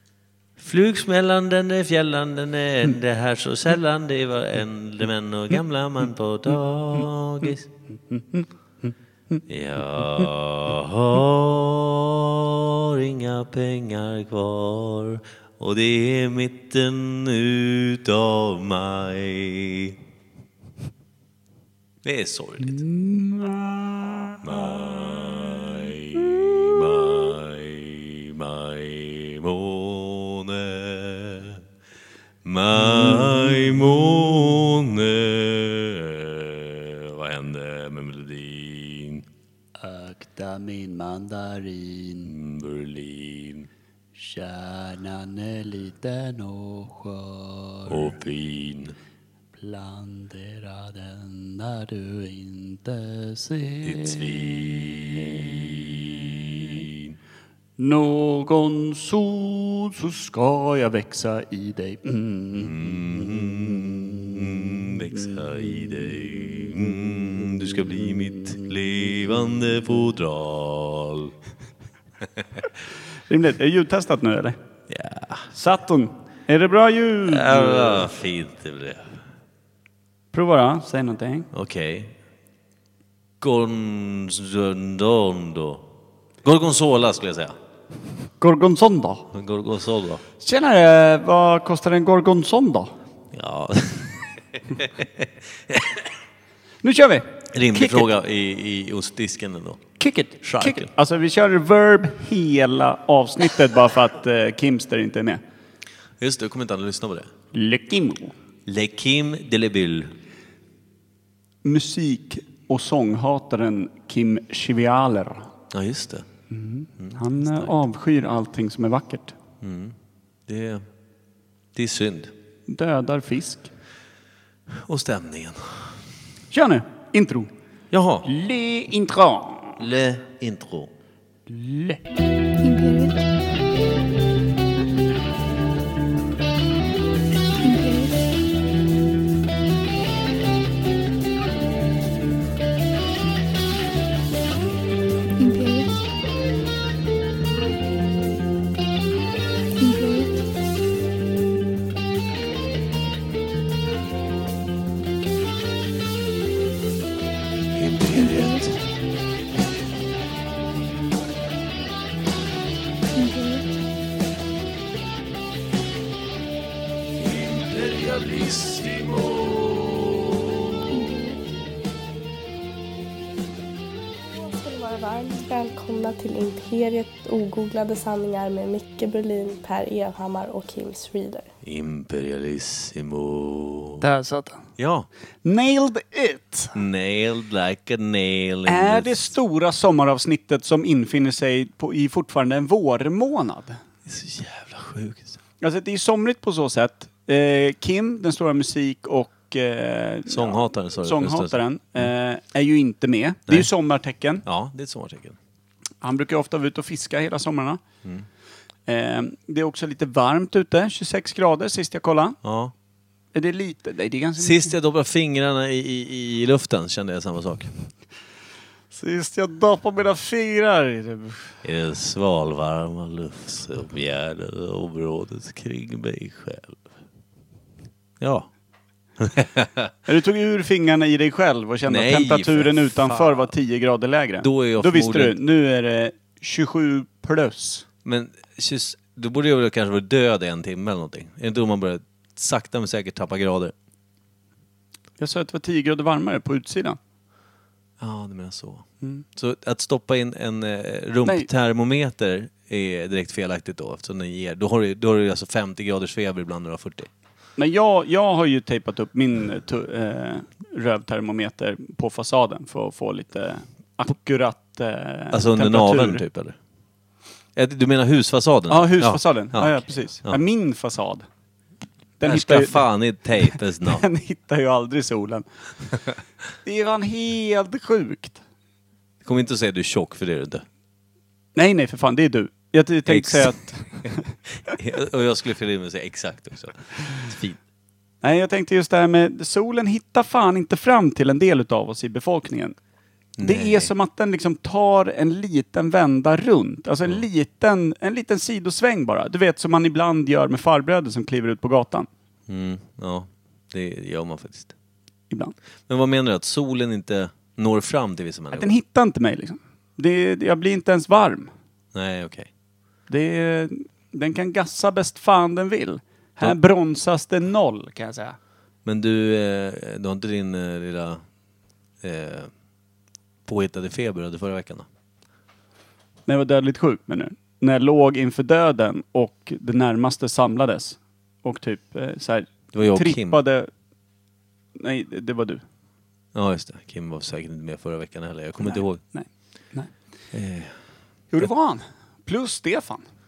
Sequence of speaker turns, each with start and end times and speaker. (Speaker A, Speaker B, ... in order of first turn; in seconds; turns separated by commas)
Speaker A: 0.6-7.7, Speaker B: 8.1-8.5, Speaker A: 9.5-20.0, Speaker B: 10.0-10.3, Speaker A: 22.0-22.8, Speaker B: 22.7-24.6, Speaker A: 24.4-31.6, Speaker A: 32.4-39.2, Speaker B: 32.9-33.6, Speaker C: 39.8-42.3, Speaker A: 42.2-43.7, Speaker C: 44.2-48.2, Speaker A: 47.9-48.9, Speaker C: 49.6-54.2, Speaker A: 53.8-57.1, Speaker B: 57.8-62.7, Speaker A: 62.6-71.3, Speaker C: 66.2-66.7, Speaker C: 67.8-68.1, Speaker B: 73.3-74.6, Speaker A: 74.9-75.5, Speaker B: 75.5-78.1, Speaker A: 77.3-79.1, Speaker B: 80.3-81.5, Speaker A: 81.5-82.1, Speaker A: 83.4-85.8, Speaker A: 86.4-87.5, Speaker B: 88.4-89.3, Speaker A: 89.3-90.2, Speaker B: 90.4-92.9, Speaker A: 93.3-96.0, Speaker B: 96.8-98.1, Speaker A: 97.5-99.8, Speaker B: 100.0-105.4, Speaker A: 100.4-100.9, Speaker A: 106.2-107.3, Speaker B: 107.5-108.3, Speaker A: 108.7-110.1, Speaker B: 111.6-115.5, Speaker A: 115.7-116.2, Speaker B: 116.5-119.3, Speaker A: 117.0-117.7, Speaker A: 119.6-119.9, Speaker A: 120.5-120.8, Speaker A: 121.7-122.3, Speaker B: 122.7-123.7, Speaker A: 124.8-125.8, Speaker B: 126.5-127.5, Speaker A: 127.9-128.3, Speaker B: 128.2-129.8, Speaker A: 129.8-130.9, Speaker B: 131.5-132.0, Speaker D: 132.6-133.2, Speaker D: 137.6-138.1, Speaker D: 145.4-145.9, Speaker D: 149.8-150.3, Speaker A: 157.8-158.8, Speaker D: 158.1-158.6, Speaker D: 163.2-163.7, Speaker A: 167.2-170.3, Speaker E: 174.3-181.4, Speaker A: 181.6-184.0, Speaker B: 184.0-184.6, Speaker A: 184.8-185.1, Speaker B: 185.4-186.8, Speaker A: 186.7-189.2, Speaker B: 188.7-193.8, Speaker A: 194.1-195.4, Speaker B: 195.6-204.4, Speaker A: 200.3-202.0, Speaker A: 204.4-205.4, Speaker B: 206.0-207.8, Speaker B: 208.8-212.4, Speaker A: 212.4-212.7, Speaker B: 213.3-214.7, Speaker A: 214.4-217.7, Speaker B: 218.9-221.5, Speaker A: 221.6-226.8, Speaker A: 228.2-228.5, Speaker A: 229.2-229.9, Speaker B: 230.1-237.8, Speaker A: 231.8-233.5, Speaker A: 234.4-235.3, Speaker A: 238.0-243.7, Speaker B: 245.2-247.0, Speaker A: 248.0-257.1, Speaker B: 257.6-266.2, Speaker A: 265.3-266.6, Speaker A: 267.6-270.4, Speaker B: 268.7-271.2, Speaker B: 272.2-272.8, Speaker A: 272.2-274.0, Speaker B: 273.4-275.4, Speaker B: 276.6-278.4, Speaker A: 279.2-280.6, Speaker B: 281.5-284.3, Speaker A: 283.1-284.1, Speaker A: 284.7-287.6, Speaker B: 288.2-292.7, Speaker A: 293.4-293.9, Speaker B: 293.4-302.1, Speaker A: 302.5-304.7, Speaker A: 305.9-308.7, Speaker B: 308.5-311.5, Speaker A: 311.9-312.5, Speaker B: 313.1-318.4, Speaker A: 318.8-321.2, Speaker A: 322.0-322.5, Speaker A: 323.4-324.9, Speaker B: 326.2-333.7, Speaker A: 332.7-333.4, Speaker B: 334.8-335.6, Speaker A: 336.3-339.0, Speaker B: 338.6-339.9, Speaker A: 340.3-340.7, Speaker B: 341.3-343.0